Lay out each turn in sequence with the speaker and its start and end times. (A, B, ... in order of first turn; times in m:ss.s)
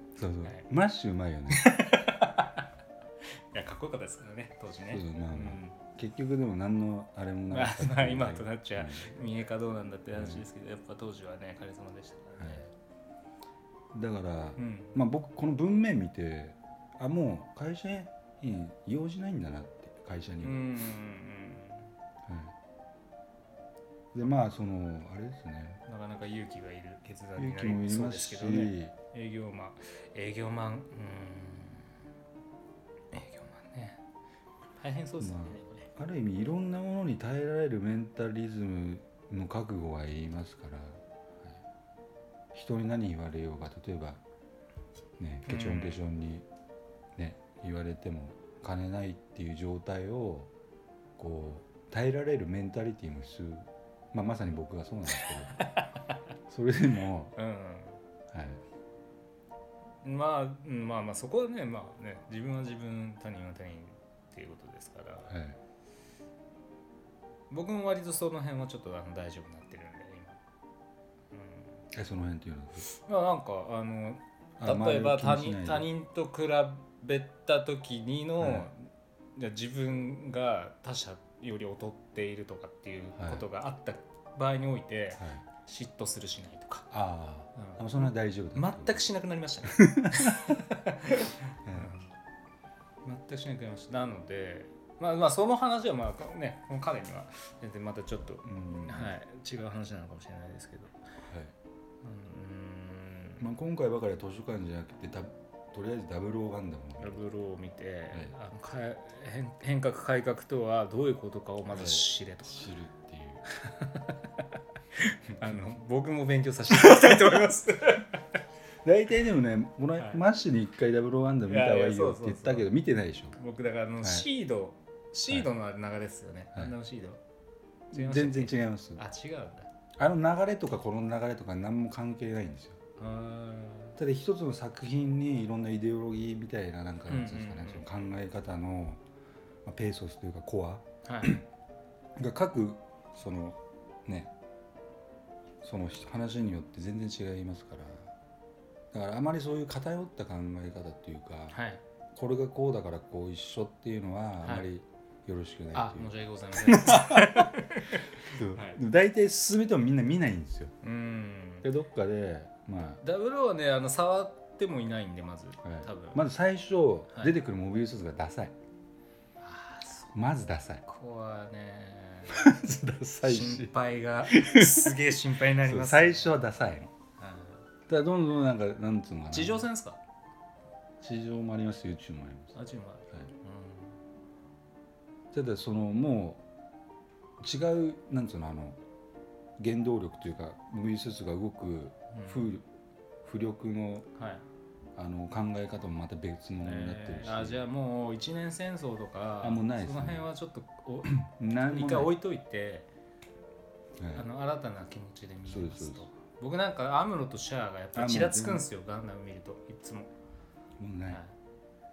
0:00.2-0:01.7 A
0:01.5-0:02.6 B
0:03.5-0:05.8 B
0:04.9-0:09.2 A
0:07.5-0:12.7 B
0:10.1-0:10.4 A
0:12.4-0:12.6 A
0:13.9-0:20.7 A
0:14.6-0:15.0 B
0:20.4-0:21.9 B
0:22.2-0:22.5 A
0:24.1-0:25.8 A
0:25.8-0:32.0 B
0:27.4-0:28.9 A
0:33.1-0:34.0 B
0:34.8-0:35.9 B
0:35.2-0:41.0 A
0:42.5-0:44.2 A
0:45.2-0:46.4 A
0:45.5-0:46.0 B
0:47.2-0:50.5 A
0:51.2-0:55.6 A
0:55.2-0:56.0 B
0:56.5-0:57.3 A
0:57.4-0:58.0 B
0:58.3-0:58.6 A
1:00.0-1:05.4 B
1:05.3-1:05.6 A
1:07.5-1:10.4 B
1:11.3-1:11.8 B
1:11.9-1:12.9 A
1:12.9-1:26.9 B
1:14.6-1:15.9 A
1:18.4-1:18.7 A
1:23.2-1:23.4 A
1:25.2-1:25.4 A
1:26.9-1:29.0 A
1:27.5-1:32.1 B
1:29.7-1:30.5 A
1:31.6-1:32.0 A
1:33.0-1:41.0 B
1:38.4-1:39.1 A
1:42.0-1:43.4 B
1:43.4-1:47.2 A
1:47.0-1:52.7 B
1:51.7-1:53.4 A
1:53.6-1:54.1 B
1:55.3-1:58.2 B
1:56.8-1:57.2 A
1:58.8-2:03.4 A
2:00.0-2:00.2 B
2:01.4-2:02.7 B
2:03.3-2:07.2 B
2:04.0-2:04.3 A
2:07.9-2:09.0 A
2:07.9-2:09.7 B
2:10.0-2:12.8 A
2:13.0-2:14.0 B
2:14.0-2:19.0 A
2:17.1-2:17.9 B
2:19.6-2:21.4 A
2:21.0-2:21.4 B
2:22.2-2:24.3 A
2:25.6-2:28.1 A
2:28.9-2:31.6 A
2:31.5-2:31.8 B
2:32.1-2:37.5 A
2:35.7-2:38.8 B
2:38.2-2:40.7 A
2:40.8-2:41.7 B
2:41.6-2:43.0 A
2:43.0-2:46.2 B
2:45.6-2:48.5 A
2:49.4-2:50.2 B
2:50.1-2:50.8 A
2:50.8-2:52.4 B
2:52.3-2:55.0 A
2:53.2-2:57.6 B
2:55.6-2:56.9 A
2:57.9-2:59.7 A
2:59.3-3:00.0 B
3:01.0-3:02.5 A
3:02.5-3:04.0 B
3:05.3-3:06.4 A
3:07.4-3:08.8 A
3:09.6-3:12.6 A
3:12.1-3:12.5 B
3:13.2-3:14.1 A
3:14.2-3:14.4 B
3:15.0-3:17.6 A
3:16.6-3:22.9 B
3:19.4-3:20.3 A
3:21.0-3:22.1 A
3:24.0-3:24.2 A
3:24.1-3:30.1 B
3:25.4-3:26.1 A
3:27.9-3:28.7 A
3:30.8-3:31.2 A
3:31.1-3:31.3 B